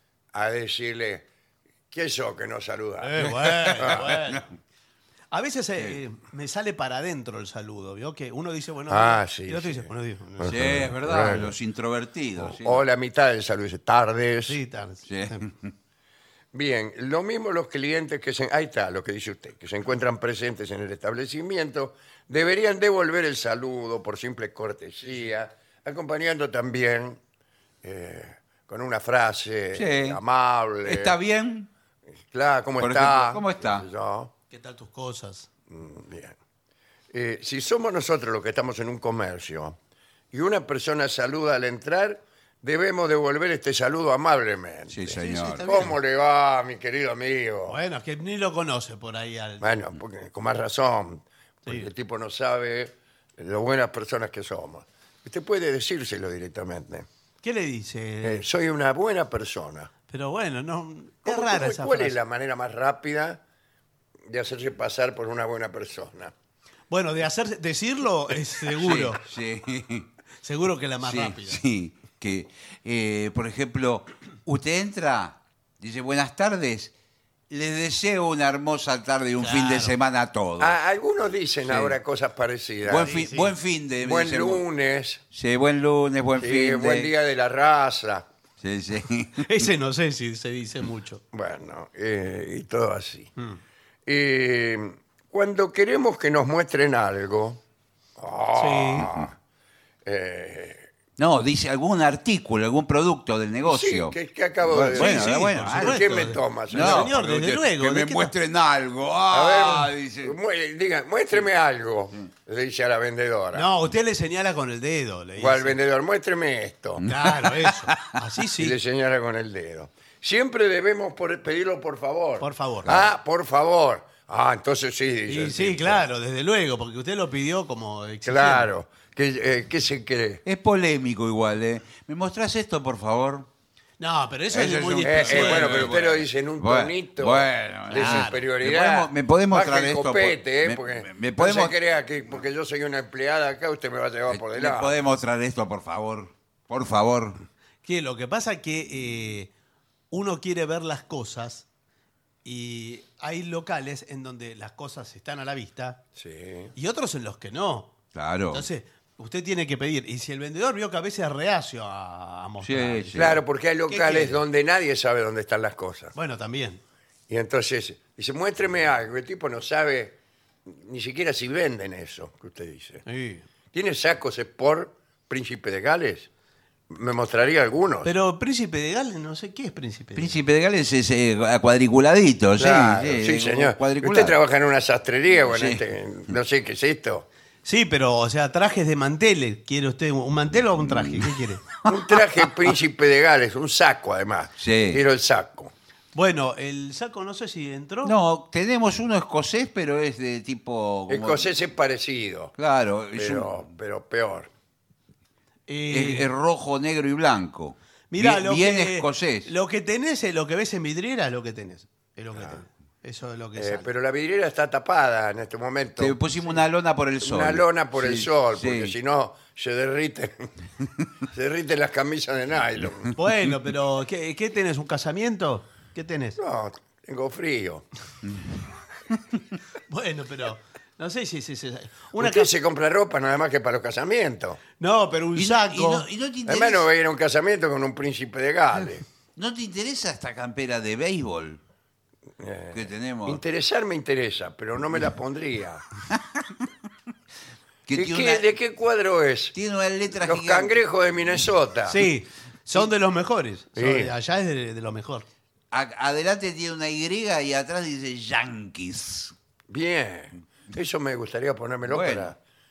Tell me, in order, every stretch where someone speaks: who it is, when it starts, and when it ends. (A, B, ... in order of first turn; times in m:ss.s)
0:00.3-0:01.2 A
0:01.9-0:04.1 A
0:03.0-0:04.4 B
0:03.3-0:04.4 C
0:05.3-0:10.8 B
0:08.9-0:11.5 A
0:10.4-0:12.8 C
0:12.4-0:14.6 A
0:14.5-0:15.4 B
0:15.1-0:15.7 C
0:16.5-0:27.2 A
0:27.8-0:31.1 A
0:29.7-0:30.2 C
0:30.8-0:31.7 C
0:32.3-0:34.3 A
0:32.8-0:33.8 C
0:34.5-0:35.5 B
0:35.7-0:36.4 A
0:37.1-0:39.8 A
0:40.3-0:47.8 A
0:44.9-0:45.9 C
0:45.1-0:45.9 B
0:47.7-0:49.7 B
0:49.6-0:57.1 A
0:57.4-0:58.4 B
0:58.2-0:59.9 A
1:00.1-1:02.2 B
1:01.2-1:03.4 A
1:04.3-1:06.3 A
1:06.9-1:09.2 B
1:08.7-1:10.1 C
1:10.4-1:11.6 B
1:11.0-1:16.9 C
1:17.5-1:20.8 C
1:19.4-1:19.9 B
1:20.6-1:23.2 A
1:21.7-1:22.0 C
1:22.8-1:24.6 C
1:23.0-1:23.5 B
1:24.0-1:25.2 A
1:25.3-1:27.1 C
1:26.4-1:28.2 A
1:28.6-1:29.6 C
1:29.4-1:31.2 B
1:31.3-1:33.3 A
1:34.0-1:37.6 A
1:38.2-1:39.3 A
1:38.6-1:39.1 B
1:40.0-1:40.8 A
1:41.2-1:50.4 C
1:43.6-1:47.1 A
1:44.9-1:48.3 B
1:49.3-1:53.7 A
1:53.5-1:55.8 B
1:55.4-1:57.0 A
1:57.0-1:58.1 C
1:57.0-1:58.8 B
1:58.6-2:06.0 A
2:02.4-2:03.0 B
2:05.3-2:08.7 B
2:08.2-2:10.4 A
2:10.4-2:13.5 C
2:14.0-2:16.0 B
2:14.5-2:21.7 C
2:15.0-2:25.0 A
2:17.9-2:18.4 B
2:24.3-2:27.4 C
2:27.8-2:29.5 B
2:30.1-2:31.6 B
2:32.4-2:36.0 B
2:36.2-2:36.7 A
2:36.7-2:37.9 B
2:38.1-2:38.6 C
2:38.5-2:43.3 B
2:42.6-2:43.4 C
2:43.1-2:46.1 A
2:43.9-2:44.4 B
2:46.1-2:46.8 B
2:47.3-2:53.0 A
2:53.0-2:53.4 B
2:53.7-2:56.3 A
2:56.9-2:58.1 A
2:58.0-3:00.4 B
3:00.2-3:04.4 C
3:02.6-3:07.2 A
3:05.4-3:05.8 C
3:07.6-3:11.6 B
3:10.8-3:11.9 C
3:11.8-3:15.7 A
3:14.6-3:15.0 C
3:16.1-3:18.1 B
3:18.0-3:21.5 C
3:21.1-3:22.5 A
3:22.6-3:23.5 C
3:23.1-3:24.5 A
3:25.7-3:26.3 B
3:25.9-3:29.5 C
3:28.1-3:33.9 B
3:33.6-3:36.2 A
3:36.0-3:38.9 C
3:37.2-3:40.5 A
3:41.3-3:43.1 A
3:43.2-3:46.4 B
3:46.4-3:47.8 A
3:49.9-3:52.5 B
3:52.2-3:54.6 A
3:54.8-3:56.0 B
3:55.4-3:56.8 C
3:56.4-3:59.0 A
3:59.4-4:01.6 C
4:02.4-4:05.8 A
4:02.7-4:03.4 C
4:07.9-4:08.5 C
4:07.9-4:09.5 A
4:09.5-4:10.8 C
4:10.1-4:12.0 A
4:11.9-4:15.2 B
4:13.8-4:14.1 A
4:15.7-4:19.3 C
4:19.7-4:22.4 A
4:21.9-4:22.3 C